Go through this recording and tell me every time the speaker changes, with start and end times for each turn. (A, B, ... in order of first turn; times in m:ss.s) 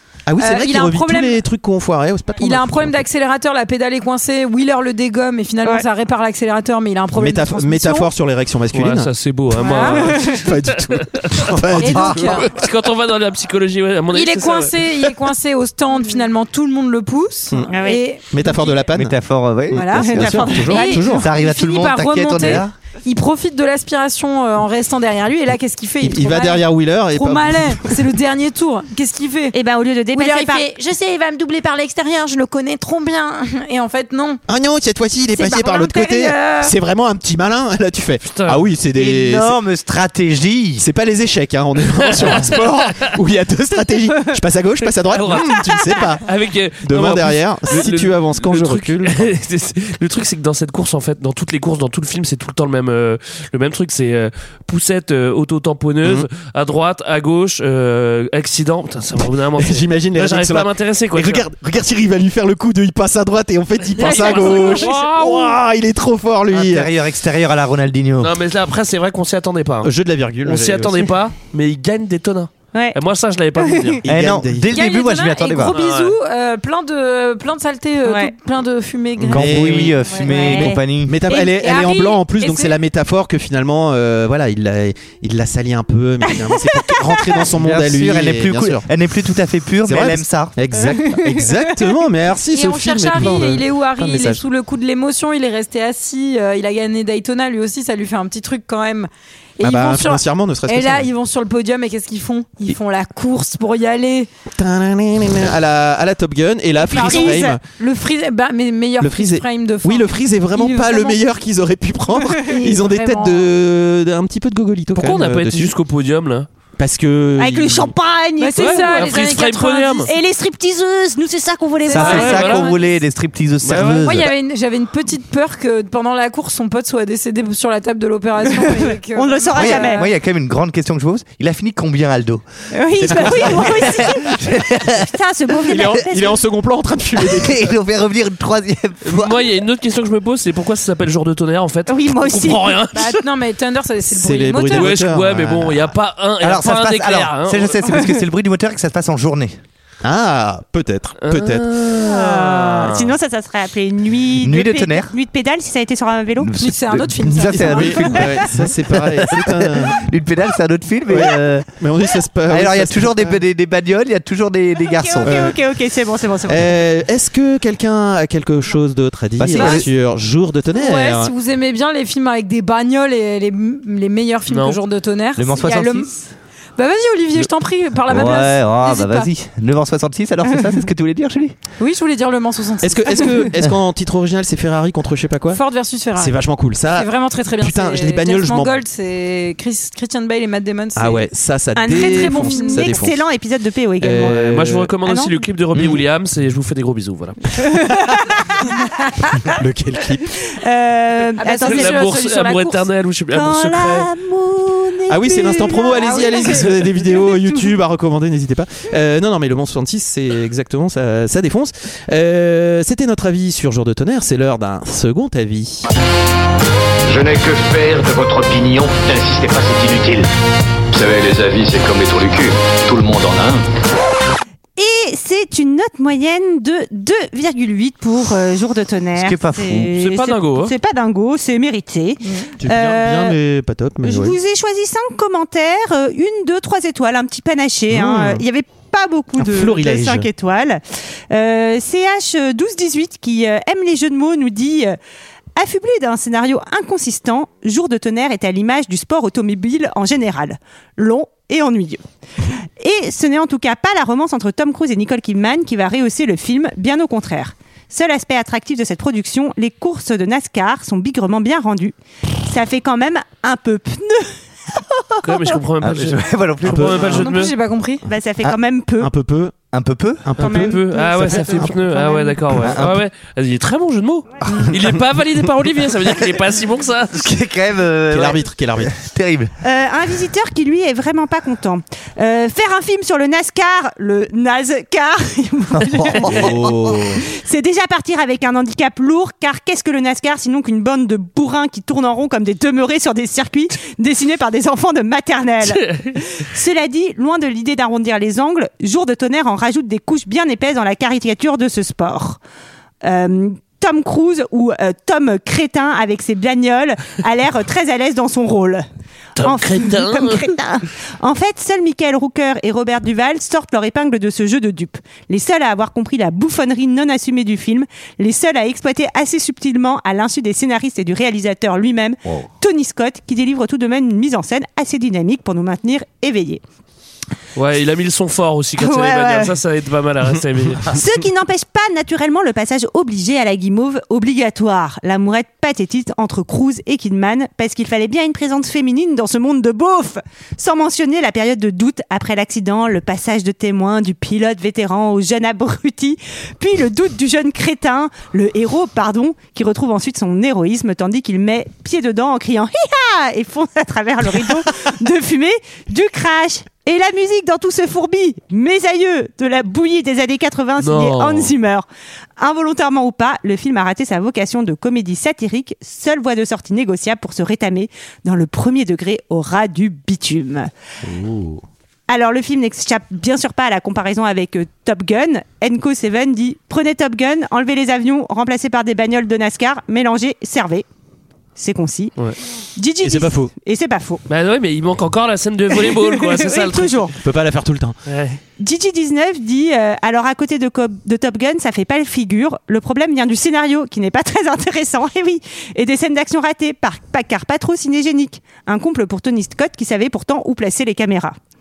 0:00.2-0:03.0 A
0:00.4-0:01.4 B
0:02.4-0:08.1 B
0:07.1-0:09.1 A
0:08.7-0:11.4 C
0:09.6-0:10.4 B
0:09.8-0:12.4 A
0:11.8-0:12.5 B
0:12.5-0:14.9 C
0:14.1-0:18.8 B
0:17.7-0:18.0 D
0:18.3-0:19.2 A
0:18.9-0:20.5 E
0:19.7-0:21.3 A
0:19.7-0:29.5 B
0:20.2-0:21.1 D
0:21.1-0:22.7 E
0:26.0-0:27.9 A
0:29.5-0:30.7 D
0:30.1-0:34.4 B
0:34.5-0:39.6 A
0:35.4-0:36.7 B
0:38.2-0:38.6 C
0:38.9-0:40.8 E
0:40.8-0:46.2 A
0:42.2-0:42.6 C
0:45.1-1:01.4 C
0:46.8-0:49.3 A
0:59.6-1:06.9 A
1:04.0-1:05.6 C
1:04.0-1:04.9 B
1:06.5-1:08.4 E
1:08.2-1:09.9 C
1:09.8-1:11.0 A
1:10.4-1:14.0 C
1:12.7-1:13.0 D
1:13.6-1:13.9 D
1:14.0-1:14.8 A
1:14.1-1:15.8 E
1:14.7-1:20.7 B
1:15.6-1:16.1 C
1:18.0-1:18.3 D
1:19.2-1:21.2 E
1:19.3-1:20.0 A
1:20.2-1:21.5 D
1:20.6-1:28.9 A
1:21.3-1:22.8 B
1:26.4-1:27.3 D
1:27.5-1:30.5 E
1:29.8-1:34.4 A
1:32.4-1:44.3 B
1:39.6-1:41.1 A
1:44.6-1:47.6 A
1:46.9-1:47.6 D
1:46.9-1:51.2 B
1:49.0-1:55.7 A
1:52.3-1:53.5 B
1:54.9-1:56.5 C
1:56.8-1:57.9 A
1:57.4-1:59.2 D
1:58.4-2:00.1 B
1:58.6-2:00.1 C
2:00.1-2:02.5 D
2:01.8-2:02.9 B
2:01.8-2:04.3 E
2:02.0-2:02.7 C
2:03.6-2:04.2 C
2:03.8-2:10.0 B
2:08.5-2:10.1 D
2:09.5-2:12.4 E
2:12.7-2:14.4 D
2:13.0-2:15.1 E
2:15.0-2:16.4 D
2:15.7-2:17.6 A
2:17.2-2:19.5 E
2:19.0-2:23.2 C
2:21.9-2:22.8 D
2:22.9-2:24.9 B
2:24.1-2:25.9 A
2:24.7-2:27.8 C
2:26.4-2:29.6 E
2:30.0-2:31.9 A
2:31.2-2:33.1 C
2:31.9-2:36.6 D
2:34.4-2:35.1 E
2:36.4-2:41.7 E
2:36.6-2:38.3 B
2:37.4-2:40.0 A
2:41.1-2:43.4 A
2:42.5-2:45.4 E
2:44.8-2:46.8 D
2:45.2-2:45.6 A
2:46.5-2:51.3 A
2:49.4-2:49.9 E
2:49.5-2:49.8 B
2:50.7-2:56.2 B
2:54.5-2:54.8 C
2:55.4-2:56.1 E
2:56.8-2:59.3 B
2:58.1-3:01.5 E
3:01.8-3:03.5 B
3:02.8-3:05.6 A
3:05.5-3:06.4 B
3:06.2-3:08.7 A
3:06.9-3:13.0 B
3:11.0-3:13.2 A
3:11.9-3:14.4 D
3:14.0-3:14.9 A
3:14.2-3:17.6 C
3:15.0-3:15.4 D
3:15.7-3:16.0 A
3:18.3-3:18.6 D
3:19.5-3:20.3 A
3:20.5-3:22.0 D
3:21.4-3:22.8 B
3:21.6-3:24.1 C
3:23.3-3:27.6 D
3:25.1-3:35.8 A
3:25.7-3:26.7 B
3:37.1-3:40.3 F
3:40.9-3:43.6 F
3:44.8-3:53.4 D
3:49.2-3:49.9 E
3:49.9-3:50.7 C
3:52.6-3:54.4 A
3:54.0-4:05.0 D
3:57.9-3:58.4 A
3:59.4-4:00.3 A
4:05.6-4:12.0 D
4:12.8-4:25.6 D
4:25.2-4:27.5 C
4:25.8-4:27.3 E
4:26.6-4:27.0 A
4:27.0-4:28.0 B
4:28.0-4:29.1 D
4:29.0-4:29.5 A
4:29.7-4:30.6 E
4:30.2-4:30.8 A
4:30.4-4:32.4 D
4:30.6-4:37.3 C
4:32.5-4:33.0 E
4:37.1-4:39.5 E
4:38.1-4:38.9 A
4:39.6-4:46.6 D
4:45.8-4:46.7 E
4:46.2-4:47.2 A
4:47.3-5:02.4 D
5:03.0-5:08.8 D
5:09.4-5:10.5 C
5:09.4-5:26.6 D
5:27.6-5:31.0 C
5:28.8-5:29.5 D
5:30.9-6:01.8 D
6:00.8-6:01.5 C
6:02.4-6:10.7 D
6:12.1-6:20.8 D
6:21.6-6:22.1 D
6:22.8-6:24.2 D
6:23.0-6:23.5 A
6:24.3-6:27.1 C
6:25.8-6:27.1 D
6:27.2-6:28.0 A
6:28.0-6:28.4 C
6:28.6-6:41.4 D